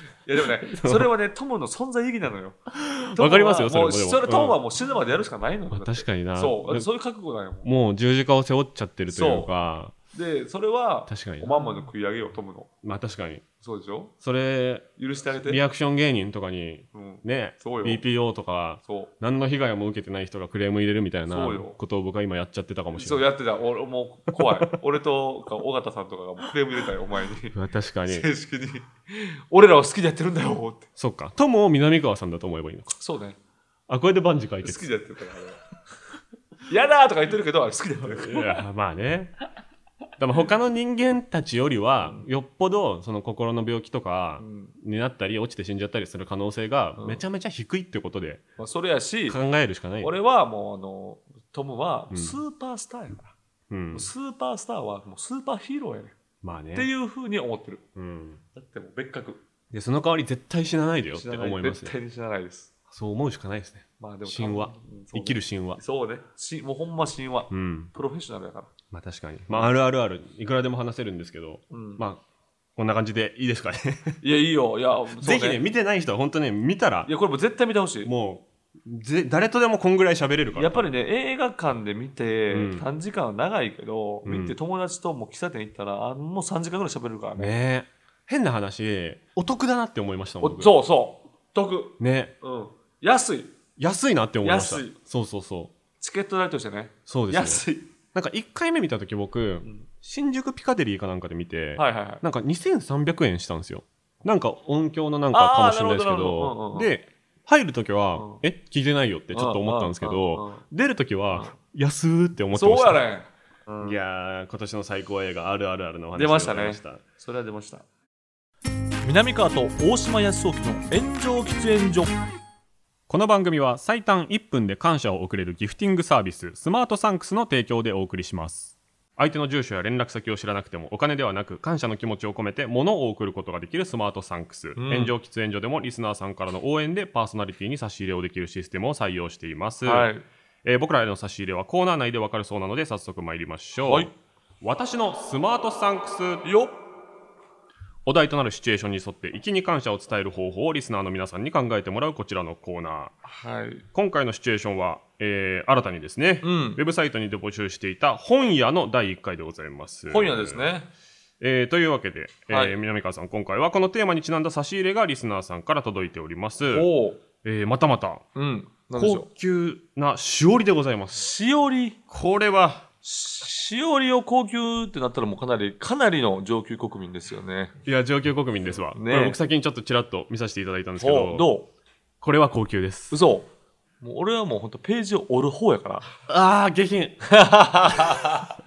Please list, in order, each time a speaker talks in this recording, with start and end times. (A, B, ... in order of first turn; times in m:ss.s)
0:00.2-0:02.6 A
0:00.7-0:01.1 B
0:02.7-0:04.6 B
0:03.1-0:07.7 A
0:05.7-0:06.9 B
0:07.6-0:09.9 B
0:09.1-0:09.5 A
0:10.1-0:12.7 A
0:11.1-0:11.6 B
0:12.8-0:13.4 B
0:13.6-0:14.1 A
0:14.2-0:14.9 B
0:15.0-0:15.6 A
0:15.4-0:23.3 B
0:16.9-0:18.0 A
0:18.8-0:19.1 A
0:21.3-0:21.8 A
0:23.0-0:30.9 A
0:24.4-0:24.7 B
0:27.5-0:28.3 B
0:31.0-0:33.0 B
0:32.9-0:33.4 A
0:33.9-0:34.9 B
0:34.6-0:35.6 A
0:36.7-0:38.6 A
0:38.1-0:39.4 B
0:40.2-0:48.4 B
0:44.4-0:44.8 A
0:47.0-0:47.2 A
0:48.6-0:49.4 A
0:49.3-0:50.1 B
0:50.0-0:53.4 A
0:52.1-0:52.4 B
0:53.7-0:54.1 B
0:53.9-0:56.2 A
0:56.4-0:56.9 B
0:56.8-0:57.8 A
0:58.0-0:58.4 B
0:58.5-0:59.4 A
0:59.7-1:02.0 B
1:01.1-1:02.7 A
1:02.9-1:05.8 B
1:04.0-1:08.7 A
1:07.5-1:07.9 B
1:08.9-1:12.2 B
1:11.7-1:12.0 A
1:12.8-1:14.2 B
1:14.2-1:15.6 A
1:15.2-1:17.1 B
1:17.1-1:18.1 A
1:18.0-1:20.9 B
1:20.5-1:27.5 A
1:22.5-1:22.9 B
1:24.2-1:24.6 B
1:27.4-1:30.7 B
1:30.4-1:33.5 A
1:32.0-1:32.3 B
1:33.8-1:35.7 B
1:34.4-1:35.0 A
1:36.0-1:37.9 A
1:37.1-1:53.0 B
1:41.8-1:42.2 A
1:45.3-1:46.9 A
1:48.2-1:48.4 A
1:49.3-1:50.6 A
1:52.6-1:54.0 A
1:53.8-1:57.0 B
1:56.2-1:57.9 A
1:59.0-2:02.2 A
2:03.1-2:20.1 B
2:14.8-2:15.1 A
2:19.8-2:20.2 A
2:20.6-2:24.1 B
2:23.8-2:24.1 A
2:24.6-2:26.4 B
2:26.4-2:26.8 A
2:28.0-2:33.1 B
2:33.2-2:33.8 A
2:33.9-2:40.6 B
2:36.4-2:36.8 A
2:40.1-2:40.9 A
2:41.4-2:46.9 B
2:42.5-2:42.8 A
2:46.7-2:47.2 A
2:47.4-2:48.2 B
2:48.4-2:49.3 A
2:49.0-2:51.3 B
2:51.2-2:52.0 A
2:52.1-2:52.9 B
2:53.0-2:57.7 A
2:57.9-3:01.5 B
2:58.6-2:59.4 A
3:01.0-3:01.7 A
3:02.2-3:03.2 B
3:03.1-3:03.5 A
3:04.0-3:06.1 A
3:06.3-3:07.2 B
3:07.3-3:08.6 A
3:08.0-3:08.2 B